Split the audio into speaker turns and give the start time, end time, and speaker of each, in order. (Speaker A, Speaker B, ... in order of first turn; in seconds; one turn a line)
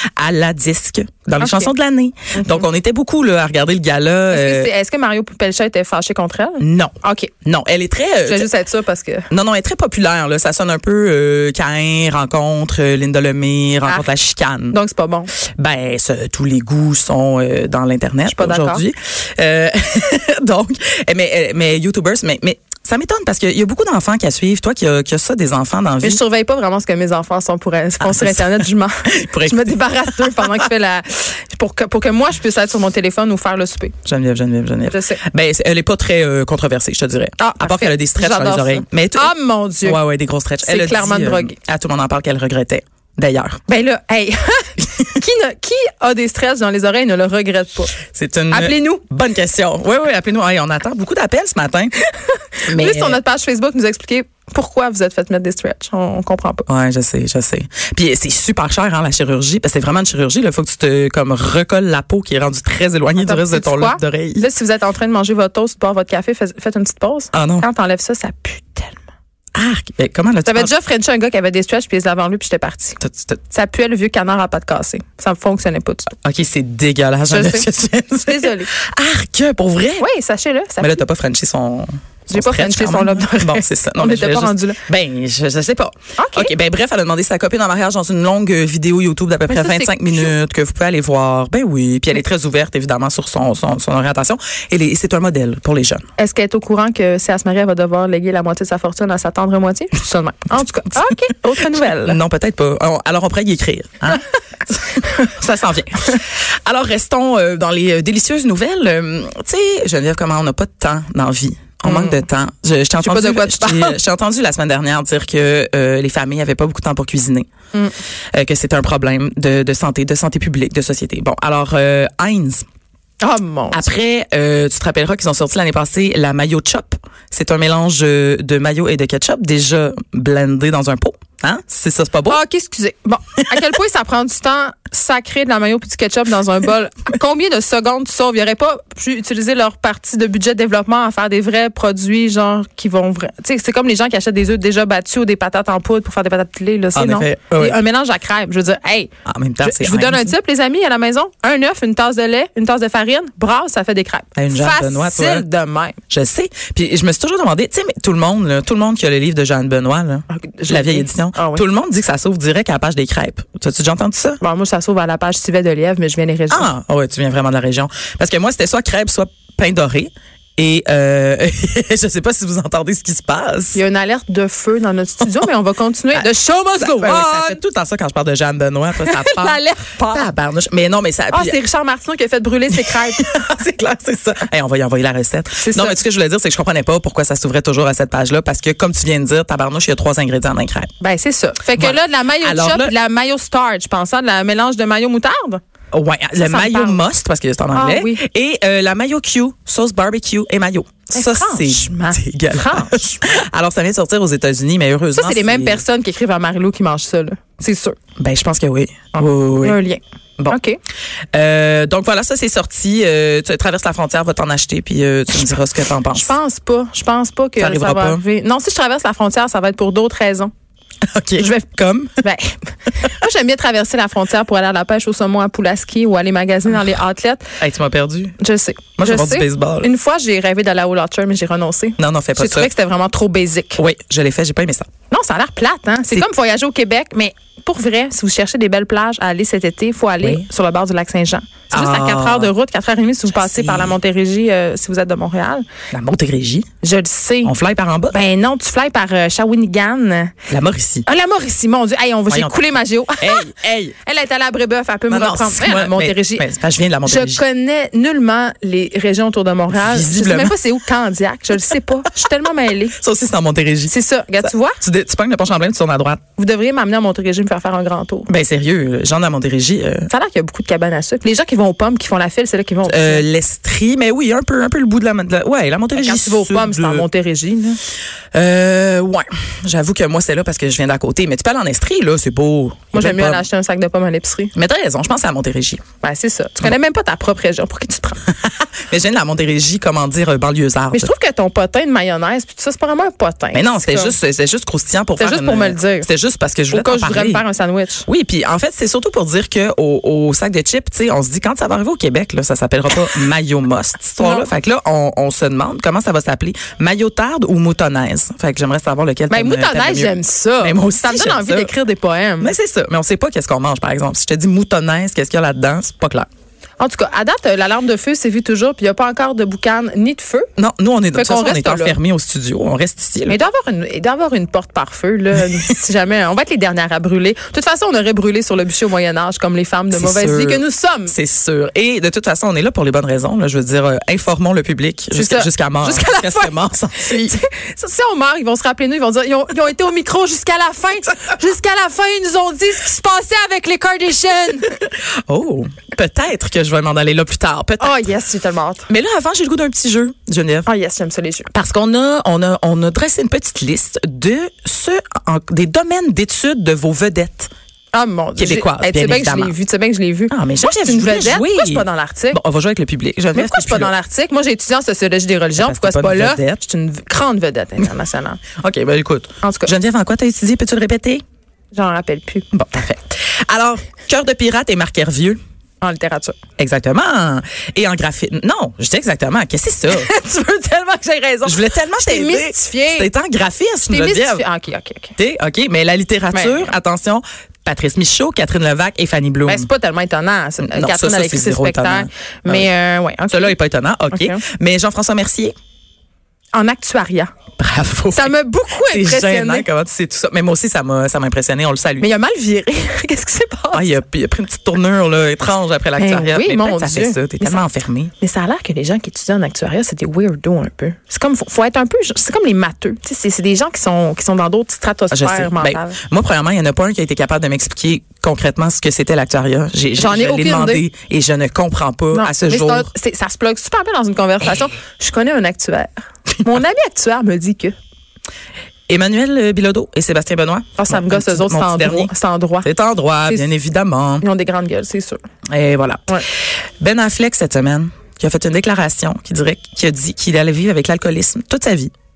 Speaker A: 0.2-4.7
Speaker B: 1.4-1.7
Speaker B: 2.3-2.7
Speaker B: 4.3-7.3
Speaker A: 6.6-8.5
Speaker B: 8.2-9.3
Speaker A: 9.3-14.8
Speaker B: 14.7-15.3
Speaker A: 15.4-26.2
Speaker B: 18.3-18.8
Speaker B: 26.0-33.9
Speaker A: 28.0-30.6
Speaker A: 34.0-43.6
Speaker B: 34.9-35.2
Speaker B: 37.4-40.0
Speaker B: 40.6-41.5
Speaker B: 43.7-48.0
Speaker A: 48.0-52.0
Speaker B: 48.5-49.0
Speaker B: 52.3-56.6
Speaker A: 52.6-53.2
Speaker A: 56.7-64.5
Speaker B: 63.2-69.0
Speaker A: 67.3-67.7
Speaker A: 69.5-70.7
Speaker B: 70.5-76.1
Speaker A: 73.0-73.4
Speaker A: 76.2-80.1
Speaker B: 77.3-78.7
Speaker B: 80.0-81.0
Speaker A: 80.8-96.0
Speaker B: 82.3-84.8
Speaker B: 86.2-86.5
Speaker B: 89.5-90.3
Speaker B: 96.2-102.2
Speaker A: 100.9-117.5
Speaker B: 111.8-112.2
Speaker B: 113.0-114.0
Speaker A: 118.3-122.6
Speaker B: 123.2-123.9
Speaker A: 123.7-132.4
Speaker B: 132.3-149.1
Speaker A: 146.9-147.8
Speaker A: 149.2-150.3
Speaker B: 149.6-156.0
Speaker A: 154.3-155.4
Speaker A: 156.1-164.4
Speaker B: 160.3-161.6
Speaker B: 164.4-166.7
Speaker A: 166.5-173.8
Speaker B: 173.7-177.6
Speaker A: 176.1-181.6
Speaker B: 179.0-180.3
Speaker B: 181.3-183.5
Speaker A: 182.7-190.9
Speaker B: 185.6-186.0
Speaker B: 191.0-195.6
Speaker A: 191.8-192.9
Speaker A: 195.9-205.8
Speaker B: 196.3-197.0
Speaker B: 197.7-198.2
Speaker B: 201.1-203.2
Speaker B: 205.1-208.0
Speaker A: 208.2-209.8
Speaker B: 209.1-210.8
Speaker A: 211.3-216.3
Speaker B: 216.1-220.5
Speaker A: 217.6-218.2
Speaker A: 221.1-222.2
Speaker B: 221.4-221.7
Speaker B: 222.2-227.4
Speaker A: 227.6-228.3
Speaker B: 228.4-233.8
Speaker A: 229.0-229.9
Speaker A: 232.0-232.7
Speaker A: 233.8-234.9
Speaker B: 235.1-245.7
Speaker A: 240.2-240.4
Speaker A: 241.7-242.5
Speaker A: 243.3-243.9
Speaker A: 245.9-246.7
Speaker B: 246.8-247.5
Speaker A: 247.4-248.2
Speaker B: 248.1-250.3
Speaker A: 250.5-251.1
Speaker B: 251.0-253.4
Speaker A: 252.3-252.6
Speaker A: 253.2-253.9
Speaker B: 254.0-256.5
Speaker A: 255.1-257.4
Speaker B: 257.0-263.0
Speaker A: 259.7-260.6
Speaker A: 262.9-266.2
Speaker B: 263.9-264.8
Speaker B: 266.4-268.3
Speaker A: 268.3-270.1
Speaker B: 270.1-273.2
Speaker A: 272.8-277.1
Speaker B: 275.9-277.8
Speaker A: 278.3-283.5
Speaker B: 282.9-284.5
Speaker A: 284.5-285.8
Speaker B: 286.0-288.2
Speaker A: 288.3-291.1
Speaker B: 290.9-294.2
Speaker A: 293.5-297.4
Speaker B: 295.2-296.1
Speaker B: 296.7-298.1
Speaker A: 298.1-311.7
Speaker B: 304.2-304.5
Speaker B: 309.3-312.5
Speaker A: 312.4-316.3
Speaker B: 316.8-320.5
Speaker A: 320.6-323.4
Speaker B: 321.1-322.0
Speaker B: 323.3-331.1
Speaker A: 329.9-337.4
Speaker B: 335.1-344.7
Speaker A: 344.7-348.0
Speaker B: 347.8-348.9
Speaker A: 348.9-350.7
Speaker B: 350.6-351.5
Speaker A: 351.5-357.5
Speaker B: 357.9-362.4
Speaker A: 358.4-359.6
Speaker A: 360.3-363.9
Speaker B: 363.3-368.4
Speaker A: 365.6-366.6
Speaker A: 368.6-371.2
Speaker B: 369.4-369.7
Speaker B: 371.7-372.5
Speaker A: 372.5-375.4
Speaker B: 375.8-376.4
Speaker A: 376.6-380.1
Speaker B: 379.9-383.1
Speaker A: 381.4-384.4
Speaker B: 383.9-385.1
Speaker A: 385.2-389.7
Speaker B: 386.3-386.7
Speaker B: 389.4-393.5
Speaker A: 390.6-392.7
Speaker A: 393.3-395.5
Speaker B: 394.1-394.4
Speaker B: 396.5-397.3
Speaker A: 397.6-402.1
Speaker B: 398.1-399.7
Speaker B: 402.0-404.0
Speaker A: 403.7-408.1
Speaker B: 406.0-407.6
Speaker B: 408.2-416.0
Speaker A: 415.1-422.9
Speaker B: 420.0-420.8
Speaker B: 422.1-427.7
Speaker A: 428.9-434.2
Speaker B: 430.8-432.7
Speaker B: 434.2-435.2
Speaker A: 435.5-436.2
Speaker A: 436.8-441.9